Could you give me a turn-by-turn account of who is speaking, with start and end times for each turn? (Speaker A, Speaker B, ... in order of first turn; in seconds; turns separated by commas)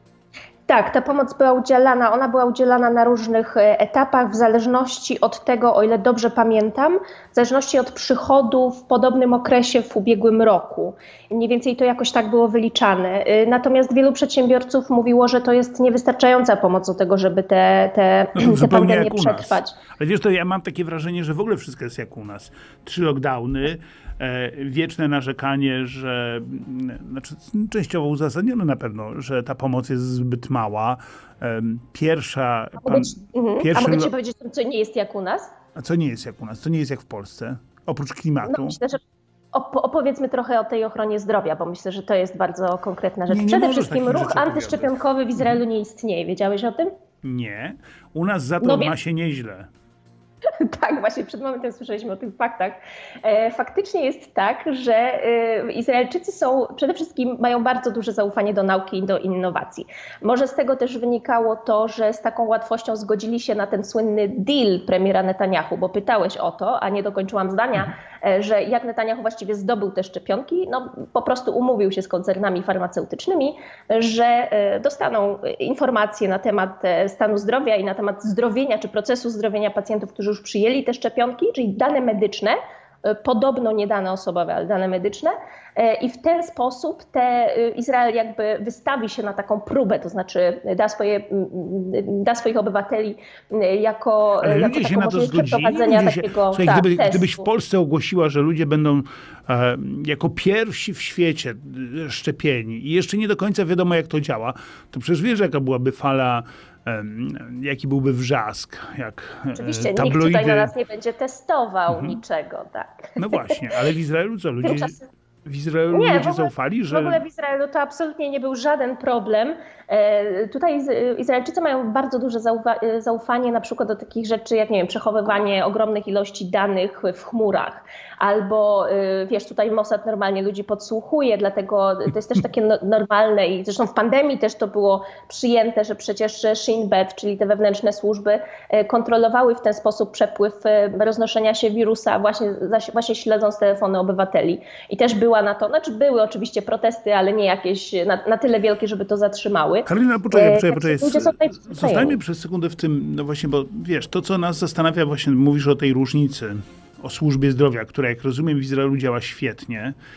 Speaker A: 0.7-19.8, Speaker B: 18.4-34.1, Speaker A: 32.8-35.5, Speaker B: 35.8-38.8, Speaker A: 38.5-39.0, Speaker A: 39.5-46.9, Speaker B: 43.3-44.9, Speaker B: 47.2-49.7, Speaker A: 48.6-48.9, Speaker A: 50.6-97.5, Speaker B: 94.4-110.7, Speaker A: 109.5-113.6, Speaker B: 111.9-112.2, Speaker B: 113.2-117.2, Speaker A: 114.6-115.0, Speaker A: 115.9-152.2, Speaker B: 149.9-160.0